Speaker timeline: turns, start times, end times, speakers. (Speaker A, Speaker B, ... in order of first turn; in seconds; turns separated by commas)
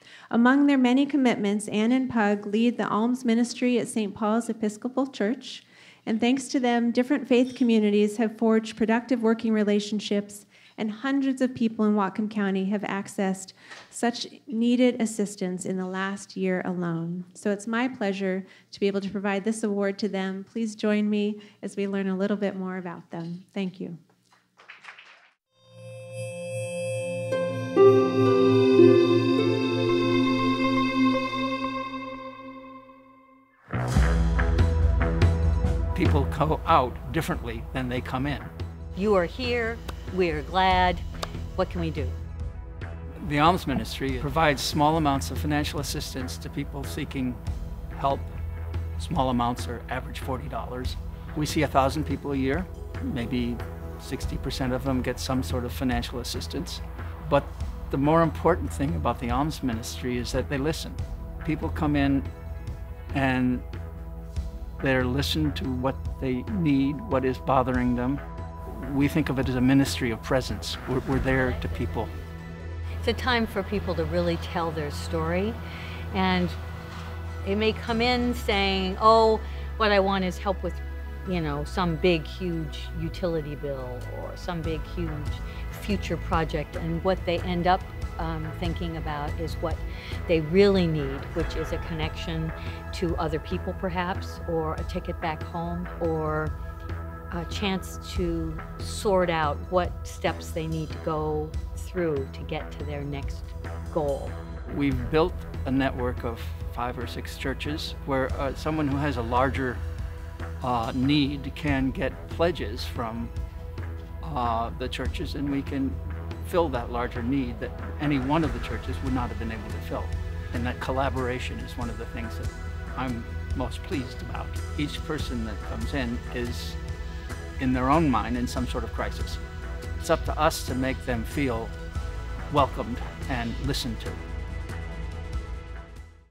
Speaker A: 0.3-24.0, Speaker B: 35.9-38.5, Speaker C: 39.0-41.0, Speaker C: 41.6-42.2, Speaker B: 43.2-48.3, Speaker B: 49.0-62.3, Speaker B: 63.1-63.7, Speaker B: 64.8-72.1, Speaker C: 73.0-75.6, Speaker C: 76.1-76.6, Speaker C: 77.4-96.5, Speaker C: 97.3-104.4, Speaker B: 104.7-109.8, Speaker B: 110.6-113.3, Speaker B: 114.2-126.8, Speaker B: 127.6-129.4, Speaker B: 130.0-131.8, Speaker B: 132.5-134.3